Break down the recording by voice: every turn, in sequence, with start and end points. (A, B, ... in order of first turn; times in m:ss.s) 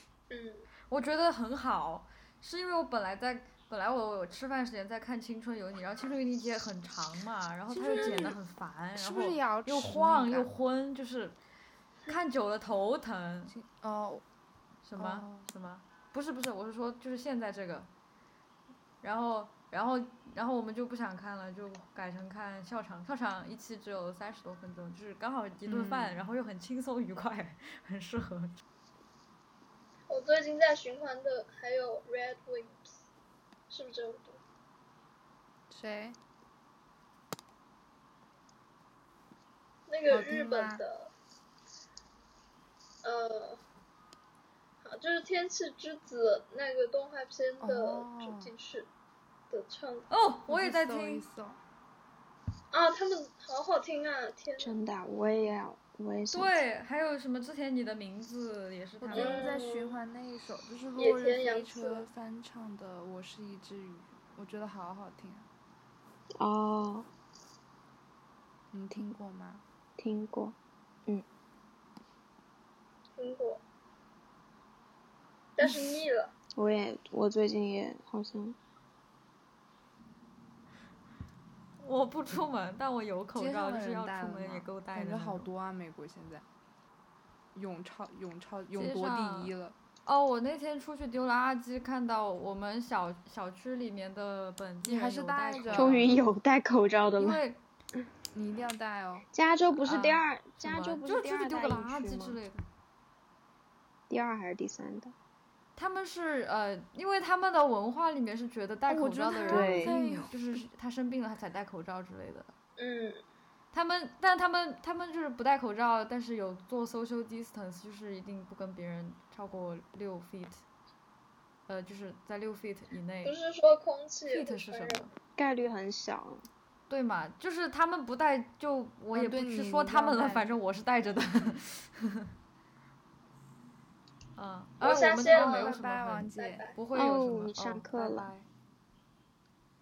0:00.3-0:00.7 A
0:00.9-0:11.4 B
0:07.7-0:08.4 C
0:07.9-0:08.4 A
0:09.0-0:10.5 C
0:12.1-0:13.5 B
0:13.5-0:14.2 C
0:14.8-0:17.9 B
0:14.9-0:15.5 C
0:19.0-0:28.6 B
0:25.6-0:26.2 C
0:30.1-0:32.9 A
0:33.7-0:34.4 A
0:35.7-0:36.2 C
0:39.9-0:41.1 A
0:40.1-0:40.8 C
0:43.0-0:43.6 A
0:44.8-0:48.9 A
0:47.6-0:48.5 C
0:49.5-0:50.1 A
0:50.1-0:51.2 B
0:50.5-0:51.6 C
0:52.7-0:54.8 A
0:54.6-0:56.6 D
0:56.3-0:59.5 B
0:59.0-1:05.5 C
0:59.1-1:00.0 A
1:01.0-1:02.1 A
1:06.4-1:07.1 D
1:08.7-1:09.6 C
1:10.0-1:10.5 D
1:13.2-1:13.6 A
1:15.6-1:16.3 A
1:15.6-1:16.0 C
1:16.6-1:18.6 D
1:21.8-1:25.5 B
1:23.3-1:26.4 C
1:27.5-1:29.8 C
1:28.7-1:29.5 B
1:30.0-1:36.2 B
1:34.8-1:36.0 C
1:35.7-1:37.4 D
1:37.2-1:37.6 B
1:38.3-1:39.2 C
1:39.3-1:42.4 D
1:39.8-1:42.6 B
1:44.1-1:45.1 D
1:45.8-1:52.5 B
1:48.9-1:50.4 C
1:49.5-1:50.0 D
1:52.8-1:53.2 A
1:53.7-2:00.6 B
2:01.7-2:03.4 B
2:03.2-2:05.0 A
2:04.3-2:05.1 B
2:05.4-2:06.4 D
2:06.9-2:12.3 B
2:09.1-2:10.5 C
2:14.4-2:18.4 B
2:14.8-2:16.8 A
2:14.8-2:16.7 C
2:16.9-2:18.3 D